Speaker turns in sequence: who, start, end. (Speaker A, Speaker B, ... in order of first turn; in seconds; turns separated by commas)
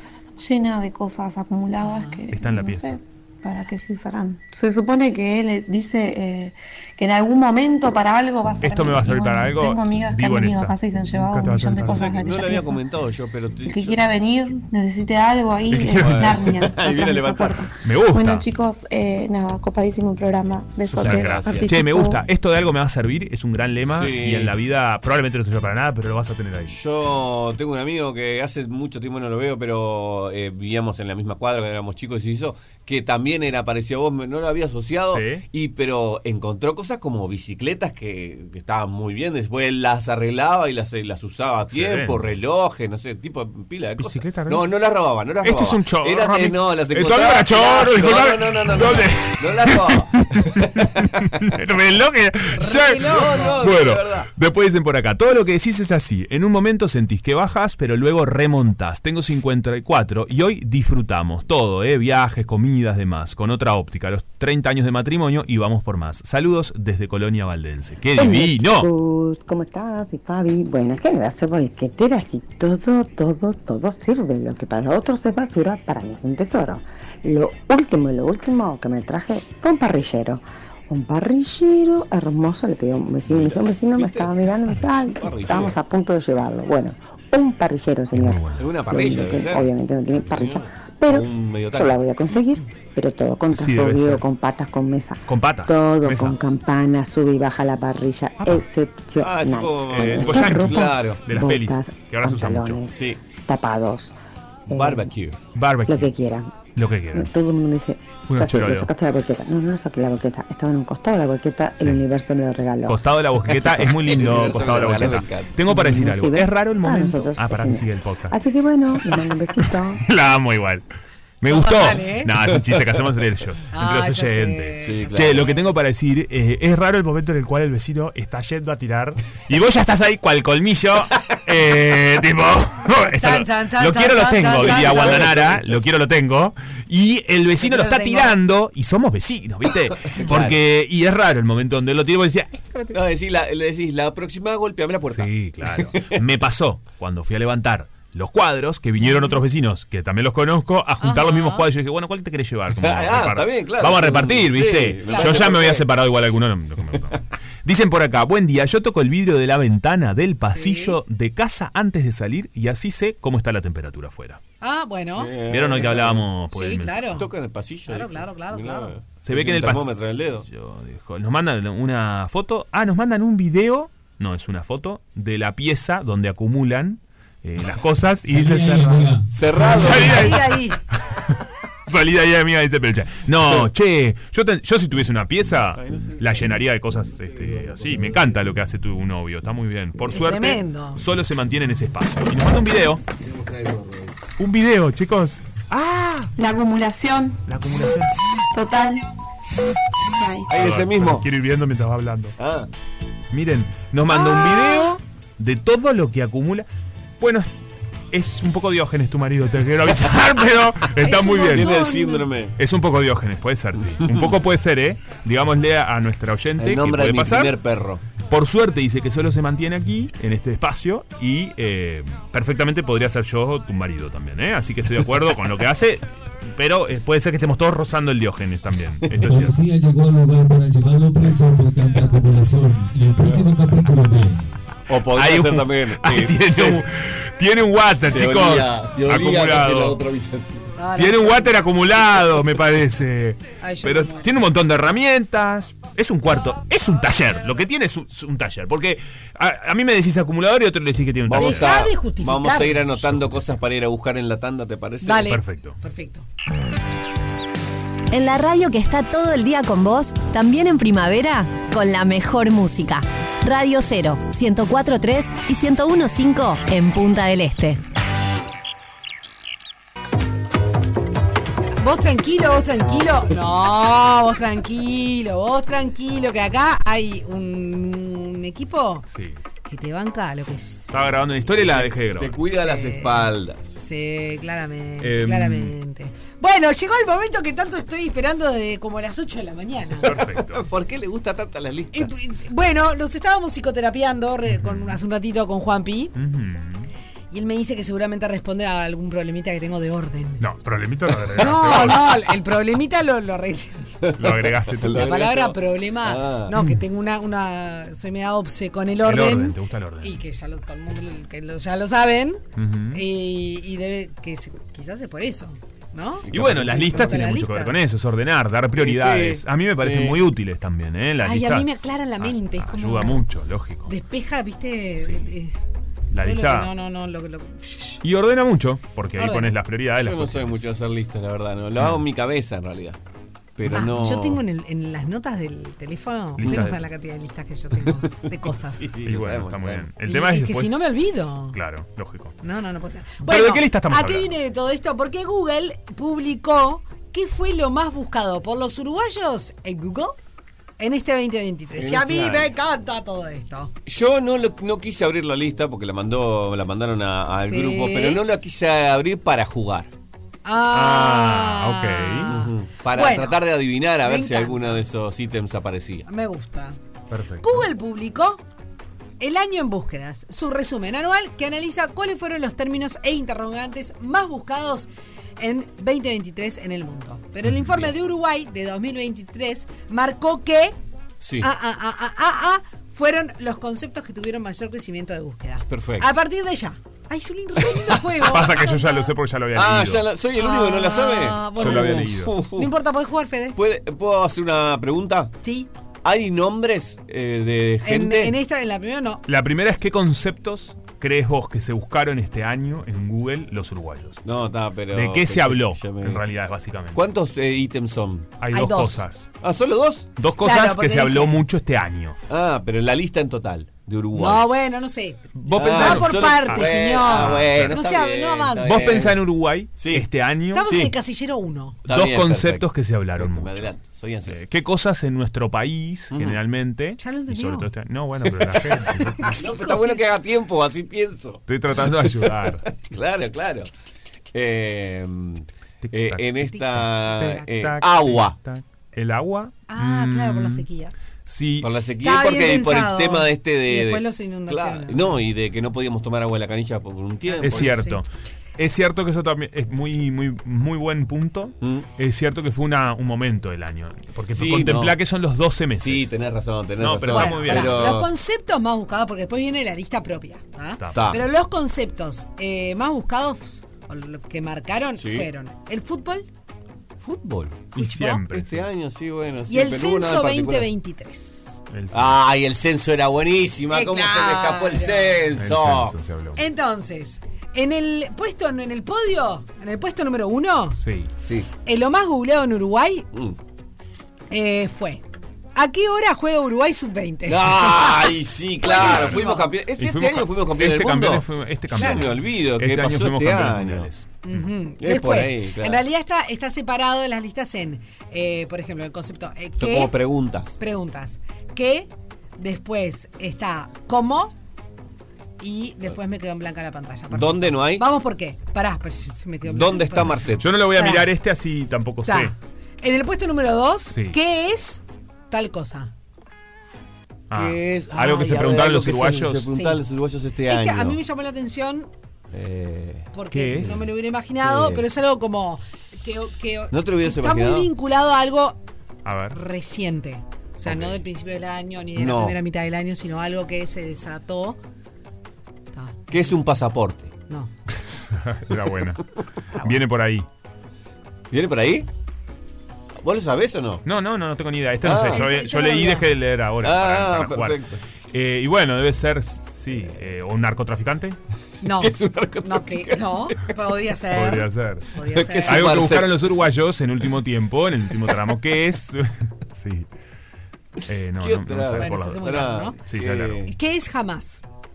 Speaker A: 0.4-12.8, Speaker B: 1.8-2.3, Speaker C: 2.3-3.0, Speaker C: 8.6-12.3, Speaker D: 11.9-14.0, Speaker A: 13.7-22.2, Speaker C: 15.7-16.7, Speaker D: 15.8-17.7, Speaker C: 17.8-18.5, Speaker C: 20.9-26.8, Speaker D: 21.0-21.7, Speaker D: 23.9-24.5, Speaker D: 26.7-51.2, Speaker C: 35.1-35.4, Speaker C: 41.7-42.3, Speaker C: 44.0-44.7, Speaker C: 45.4-68.9, Speaker B: 52.5-53.6, Speaker D: 53.0-54.3, Speaker E: 68.2-102.9, Speaker D: 83.3-85.8, Speaker C: 88.1-88.7, Speaker D: 88.6-92.0, Speaker C: 93.5-94.2, Speaker C: 95.3-96.4, Speaker D: 99.2-101.2, Speaker C: 99.9-102.8, Speaker D: 102.9-103.2, Speaker E: 103.5-104.2, Speaker D: 104.7-105.4, Speaker E: 104.7-105.1, Speaker C: 105.5-106.1, Speaker E: 105.9-106.6, Speaker C: 106.8-107.3, Speaker E: 107.1-113.0, Speaker C: 108.3-108.9, Speaker C: 112.9-118.4, Speaker D: 113.5-115.6, Speaker E: 115.7-120.0, Speaker C: 119.6-120.8, Speaker C: 121.4-142.7, Speaker B: 121.4-122.3, Speaker B: 123.7-125.6, Speaker D: 124.8-125.5, Speaker B: 132.9-135.3, Speaker D: 134.5-135.8, Speaker B: 137.6-138.4, Speaker D: 140.1-140.6, Speaker D: 142.9-146.2, Speaker C: 145.1-164.4, Speaker B: 149.0-149.4, Speaker B: 151.0-151.7, Speaker D: 152.8-155.9, Speaker B: 155.1-155.4, Speaker B: 160.5-161.0, Speaker B: 164.6-165.3, Speaker D: 165.2-166.3, Speaker C: 165.5-167.3, Speaker B: 166.5-167.3, Speaker D: 167.1-170.5, Speaker B: 167.9-168.9, Speaker C: 169.2-193.0, Speaker F: 178.3-179.7, Speaker D: 179.3-180.4, Speaker B: 179.6-180.8, Speaker D: 185.7-188.5, Speaker B: 190.1-191.0, Speaker D: 193.2-194.2, Speaker C: 194.4-196.3, Speaker A: 196.4-197.4, Speaker C: 197.5-198.1, Speaker A: 198.5-199.1, Speaker A: 200.1-200.5, Speaker D: 200.5-201.3, Speaker C: 200.5-202.4, Speaker D: 202.4-202.7, Speaker C: 203.3-206.7, Speaker B: 204.1-204.9, Speaker C: 207.2-207.5, Speaker C: 208.1-211.8, Speaker B: 211.0-212.3, Speaker D: 211.4-212.6, Speaker C: 212.6-217.6, Speaker D: 213.9-214.4, Speaker D: 216.6-218.0, Speaker C: 218.3-229.6, Speaker F: 229.2-234.5, Speaker D: 234.9-236.8, Speaker C: 235.1-240.0, Speaker D: 237.9-240.7, Speaker B: 240.8-241.6, Speaker C: 240.9-251.8, Speaker B: 243.6-244.3, Speaker D: 251.3-255.3, Speaker B: 251.4-252.8, Speaker C: 252.8-253.6, Speaker B: 255.0-256.3, Speaker C: 255.2-255.8, Speaker G: 258.1-267.8, Speaker B: 271.8-279.1, Speaker C: 279.1-279.4, Speaker B: 279.6-281.0, Speaker C: 280.9-282.4, Speaker D: 281.6-283.8, Speaker B: 282.6-290.1, Speaker C: 285.0-285.7, Speaker D: 290.0-292.1, Speaker C: 290.0-290.7, Speaker B: 291.9-296.1, Speaker C: 294.6-295.0, Speaker C: 296.2-296.9, Speaker B: 297.3-300.4, Speaker C: 300.4-302.3, Speaker B: 301.4-303.9, Speaker D: 304.0-306.6, Speaker C: 304.2-305.1, Speaker B: 304.9-317.8, Speaker C: 309.0-310.2, Speaker C: 312.6-313.0, Speaker D: 316.3-317.3, Speaker C: 316.3-323.9, Speaker D: 318.8-320.2, Speaker B: 321.2-323.2, Speaker B: 323.9-325.6, Speaker C: 325.0-325.3, Speaker C: 326.1-326.7, Speaker B: 326.2-328.0, Speaker C: 328.0-330.7, Speaker B: 329.2-329.5, Speaker D: 329.9-333.0, Speaker C: 331.8-332.0, Speaker D: 333.6-334.4, Speaker B: 333.7-338.9, Speaker C: 336.4-336.9, Speaker D: 338.2-339.9, Speaker C: 339.1-340.9, Speaker B: 340.1-341.6, Speaker C: 341.5-342.4, Speaker B: 342.4-350.2, Speaker C: 343.2-344.3, Speaker B: 350.8-353.7, Speaker D: 351.8-352.5, Speaker D: 353.9-359.9, Speaker B: 357.4-358.2, Speaker B: 360.4-363.4, Speaker C: 360.7-362.3, Speaker D: 362.3-366.1, Speaker B: 364.0-364.8, Speaker B: 366.1-366.8, Speaker C: 367.1-367.7, Speaker B: 367.4-368.4, Speaker B: 369.2-374.9, Speaker B: 375.4-380.8, Speaker C: 377.5-377.9, Speaker D: 381.2-381.5, Speaker B: 381.4-389.1, Speaker D: 385.7-386.1, Speaker C: 388.2-390.1, Speaker D: 389.5-392.7, Speaker B: 390.4-393.6, Speaker C: 391.6-392.4, Speaker D: 393.6-395.3, Speaker B: 395.4-395.7, Speaker D: 396.0-398.4, Speaker B: 397.8-399.2, Speaker C: 399.3-404.2, Speaker D: 404.2-406.2, Speaker C: 404.9-407.1, Speaker D: 406.9-408.4, Speaker C: 408.4-409.3, Speaker B: 408.5-409.0, Speaker D: 409.4-410.1, Speaker C: 410.2-412.2, Speaker B: 410.4-411.4, Speaker D: 412.3-414.5, Speaker B: 414.1-419.1, Speaker C: 415.4-417.8, Speaker D: 415.5-419.2, Speaker C: 418.6-420.8, Speaker D: 419.8-420.1, Speaker B: 420.5-421.8, Speaker D: 420.7-420.9, Speaker D: 421.9-424.4, Speaker C: 421.9-423.7, Speaker C: 424.3-429.4, Speaker D: 426.1-426.4, Speaker B: 427.0-427.7, Speaker B: 429.0-430.1, Speaker D: 429.2-433.7, Speaker C: 431.5-432.7, Speaker D: 434.3-438.4, Speaker C: 435.8-440.7, Speaker B: 439.7-440.9, Speaker C: 441.3-441.7, Speaker D: 441.6-447.8, Speaker B: 442.0-445.2, Speaker B: 447.3-448.0, Speaker C: 447.4-448.1, Speaker C: 448.6-456.1, Speaker D: 451.6-451.9, Speaker D: 454.3-455.0, Speaker D: 455.8-458.1, Speaker C: 456.8-458.0, Speaker B: 457.1-466.3, Speaker C: 460.8-461.2, Speaker D: 460.9-461.2, Speaker D: 465.0-465.3, Speaker D: 467.0-470.7, Speaker C: 467.7-468.7, Speaker B: 467.8-468.2, Speaker B: 469.5-471.6, Speaker C: 471.7-472.2, Speaker D: 471.9-475.9, Speaker B: 473.7-475.3, Speaker C: 475.4-476.4, Speaker B: 476.4-480.8, Speaker C: 480.8-481.1, Speaker D: 481.2-481.5, Speaker B: 481.6-483.1, Speaker B: 484.3-485.0, Speaker B: 485.6-489.5, Speaker D: 487.3-493.9, Speaker C: 488.8-489.1, Speaker C: 489.8-494.4, Speaker B: 491.8-492.1, Speaker B: 494.2-499.9, Speaker D: 494.8-495.8, Speaker D: 499.6-500.6, Speaker B: 500.6-504.4, Speaker B: 505.4-511.1, Speaker D: 507.1-507.9, Speaker D: 509.4-510.5, Speaker C: 510.4-512.3, Speaker B: 512.1-515.9, Speaker C: 513.9-514.2, Speaker C: 517.3-519.5, Speaker D: 517.3-521.0, Speaker B: 519.5-519.8, Speaker B: 520.5-521.9, Speaker D: 522.3-523.9, Speaker B: 523.1-528.6, Speaker C: 523.3-523.9, Speaker D: 524.4-524.9, Speaker D: 526.7-527.7, Speaker C: 529.0-529.4, Speaker B: 529.3-534.6, Speaker D: 532.0-532.4, Speaker B: 535.7-536.3, Speaker D: 536.1-537.1, Speaker C: 538.0-539.1, Speaker C: 539.6-540.3, Speaker D: 541.3-541.9, Speaker D: 543.0-543.8, Speaker C: 543.9-551.2, Speaker D: 544.8-545.2, Speaker B: 545.0-546.1, Speaker D: 546.6-547.8, Speaker B: 551.6-555.7, Speaker D: 551.6-553.5, Speaker C: 554.1-554.9, Speaker D: 555.1-556.2, Speaker C: 555.4-559.9, Speaker C: 560.9-563.5, Speaker D: 561.2-563.5, Speaker B: 561.8-562.8, Speaker B: 563.5-564.4